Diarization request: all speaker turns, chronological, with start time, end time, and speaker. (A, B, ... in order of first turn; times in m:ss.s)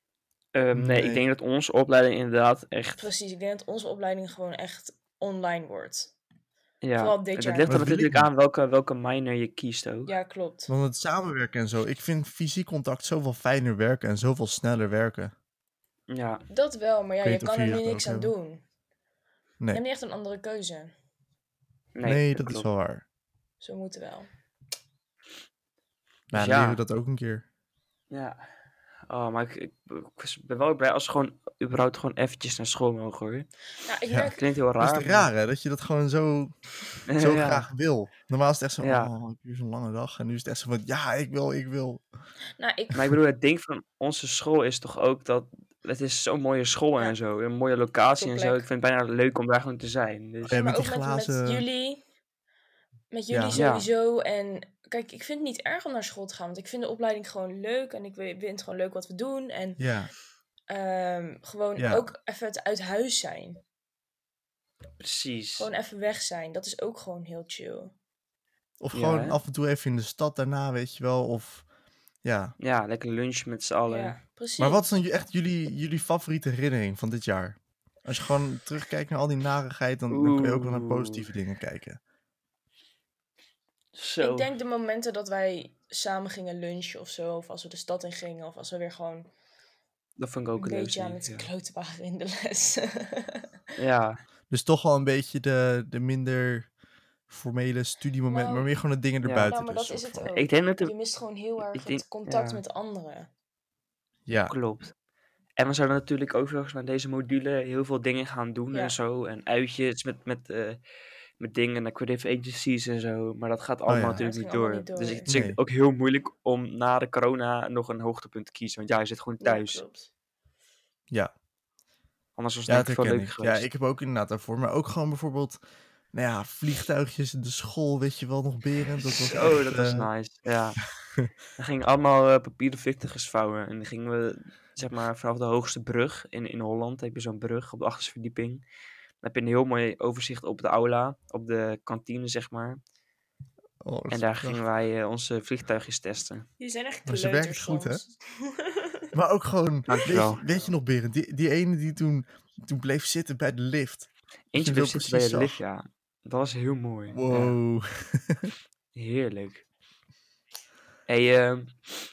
0:00.5-0:03.1 A
0:00.7-0:01.2 B
0:03.0-0:06.1 C
0:06.8-0:10.1 A
0:07.0-0:07.8 C
0:07.7-0:08.3 B
0:10.1-0:10.7 C
0:10.7-0:15.3 B
0:16.1-0:16.4 A
0:16.5-0:18.6 C
0:17.2-0:18.3 B
0:19.7-0:20.9 C
0:21.9-0:22.7 A
0:22.0-0:23.0 B
0:23.6-0:24.3 C
0:26.3-0:27.4 B
0:26.3-0:26.8 A
0:28.1-0:28.4 A
0:29.1-0:33.5 A
0:33.8-0:34.4 C
0:34.1-0:36.6 B
0:34.4-0:35.3 A
0:37.1-0:37.7 A
0:37.1-0:42.0 B
0:38.8-0:39.1 A
0:42.6-0:43.0 C
0:42.9-0:50.6 A
0:48.2-0:48.6 C
0:50.5-0:51.6 B
0:50.5-0:52.0 C
0:53.1-0:59.8 C
0:53.3-0:53.6 B
0:53.5-0:53.9 A
0:59.8-1:00.1 B
1:00.7-1:03.6 C
1:01.8-1:02.1 B
1:05.0-1:05.7 A
1:05.6-1:07.9 C
1:08.8-1:11.6 B
1:08.9-1:09.4 A
1:12.2-1:12.5 B
1:12.6-1:14.2 A
1:13.9-1:14.8 C
1:14.6-1:22.0 B
1:20.1-1:21.2 A
1:23.9-1:24.5 A
1:24.2-1:29.3 C
1:30.2-1:31.5 A
1:30.6-1:33.5 C
1:33.8-1:34.2 A
1:34.5-1:36.7 B
1:37.3-1:40.3 B
1:38.3-1:38.7 C
1:39.2-1:39.5 A
1:39.5-1:43.3 C
1:40.3-1:40.9 A
1:41.7-1:42.6 A
1:44.3-1:44.5 B
1:44.5-1:44.9 A
1:45.6-1:50.8 A
1:51.4-1:59.8 A
1:53.9-1:54.2 B
1:54.1-1:55.3 C
1:55.3-1:55.6 B
1:59.4-2:00.1 C
2:02.4-2:03.6 A
2:02.7-2:05.6 B
2:06.1-2:10.1 B
2:09.0-2:10.8 A
2:11.6-2:18.6 A
2:19.2-2:22.8 A
2:23.8-2:24.6 B
2:24.1-2:26.5 A
2:26.6-2:29.1 C
2:27.0-2:28.0 B
2:29.1-2:35.6 B
2:29.9-2:30.4 A
2:34.5-2:37.5 A
2:37.1-2:38.5 B
2:38.9-2:39.6 A
2:41.1-2:41.7 A